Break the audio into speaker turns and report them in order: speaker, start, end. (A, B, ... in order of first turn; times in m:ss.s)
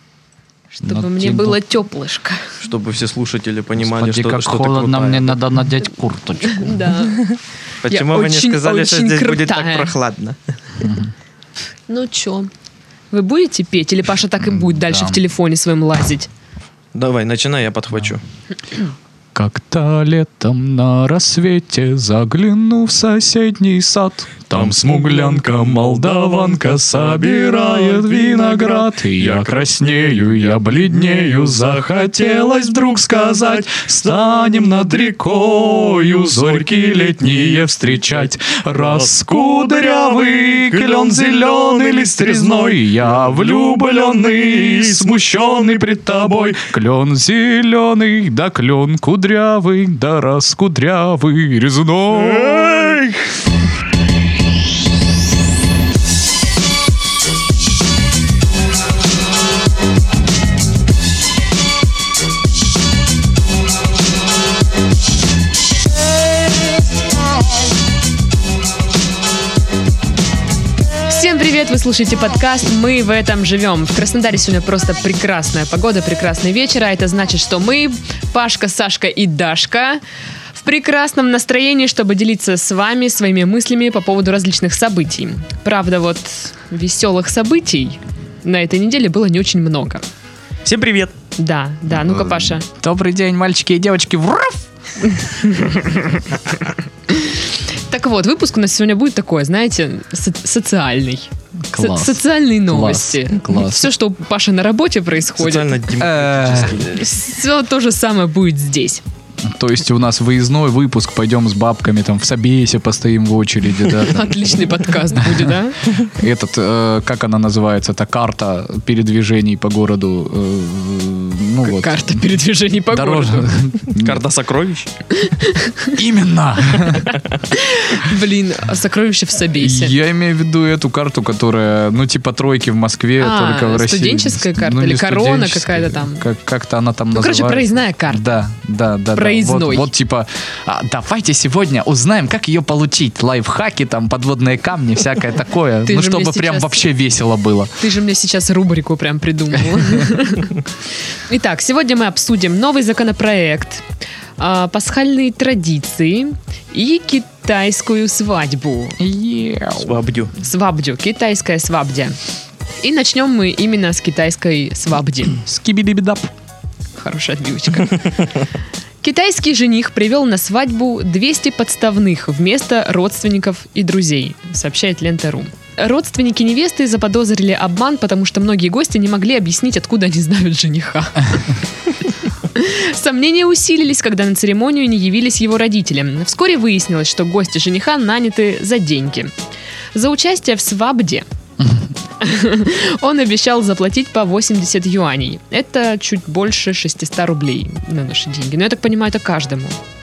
0:00.7-0:02.6 A
0:00.8-0:01.6 B
0:02.6-0:05.5 C
0:03.8-0:06.9 B
0:06.4-0:07.3 A
0:07.2-0:10.4 C
0:07.9-0:09.9 A
0:10.8-0:11.1 B
0:11.9-0:12.5 A
0:13.1-0:16.3 A
0:14.4-0:15.2 B
0:17.0-0:18.2 C
0:19.4-0:53.0 B
0:24.5-0:29.7 C
0:31.0-0:31.7 C
0:36.7-0:37.3 C
0:38.8-0:46.6 C
0:52.1-0:53.2 C
1:11.1-1:20.0 A
1:20.6-1:30.1 A
1:30.6-1:31.1 C
1:31.4-1:32.6 A
1:31.9-1:34.6 B
1:35.1-1:36.3 A
1:37.1-1:45.8 A
1:41.7-1:43.9 B
1:45.4-1:47.0 C
1:46.0-1:46.8 B
1:46.8-1:49.0 A
1:49.4-1:54.6 B
1:54.0-1:55.9 A
1:55.2-1:55.5 B
1:56.1-2:02.3 B
2:01.6-2:03.6 A
2:02.9-2:04.2 B
2:03.9-2:04.9 C
2:05.1-2:06.0 A
2:06.0-2:07.2 B
2:06.7-2:10.0 A
2:09.6-2:27.7 B
2:13.2-2:16.3 A
2:17.1-2:18.3 A
2:19.2-2:19.9 A
2:25.8-2:26.8 A
2:27.8-2:30.5 A
2:31.3-2:33.8 A
2:34.4-2:39.0 A
2:39.0-2:40.0 B
2:39.8-2:40.3 C
2:40.4-2:42.2 A
2:42.8-2:45.4 A
2:45.4-2:46.3 B
2:47.0-2:48.1 A
2:49.0-3:09.3 A
3:09.9-3:11.3 A
3:11.6-3:11.9 B
3:12.2-3:19.8 A